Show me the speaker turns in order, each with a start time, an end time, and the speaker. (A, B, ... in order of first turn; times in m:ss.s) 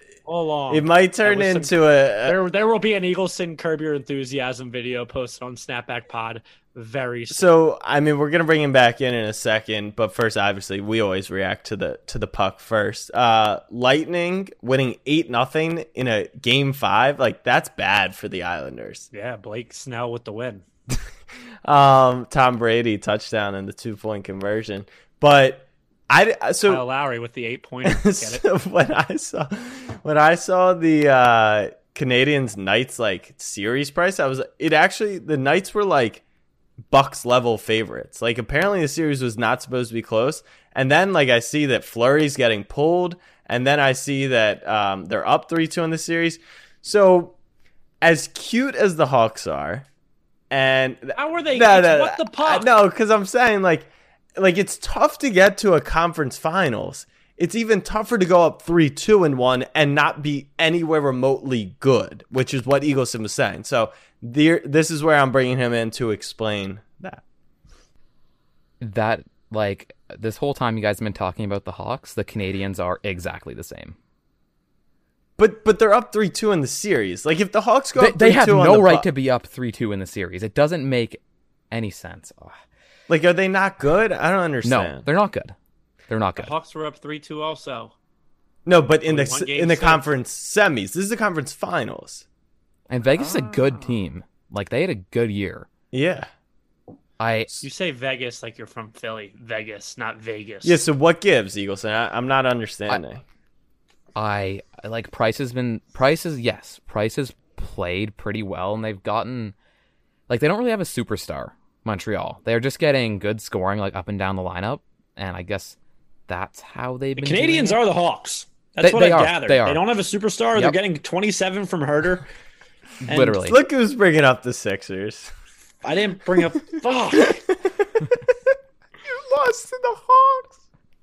0:00.2-0:07.5 A
0:00.7-0:02.4 B
0:07.3-0:19.0 B
0:19.1-0:20.6 A
0:21.6-0:26.8 B
0:26.6-0:28.4 A
0:27.8-0:36.2 B
0:36.9-0:47.3 B
0:48.0-0:49.8 B
0:50.5-1:07.2 B
0:51.1-0:52.7 A
1:08.8-1:14.0 C
1:15.4-1:19.1 B
1:18.0-1:22.6 C
1:23.1-1:25.1 B
1:24.6-1:25.5 C
1:26.1-1:26.5 C
1:26.4-1:27.9 A
1:28.6-1:32.2 B
1:29.0-1:30.1 A
1:32.9-1:35.7 C
1:33.2-1:33.9 A
1:35.9-1:36.3 B
1:37.2-1:37.6 C
1:37.6-1:40.8 A
1:40.6-1:43.2 B
1:44.1-1:49.5 C
1:50.3-1:55.8 C
1:56.3-1:57.8 C
1:57.2-2:02.2 A
1:58.8-1:59.8 C
2:03.0-2:03.6 C
2:03.1-2:03.4 A
2:03.3-2:05.3 B
2:05.8-2:07.4 A
2:07.8-2:08.3 B
2:09.1-2:10.5 B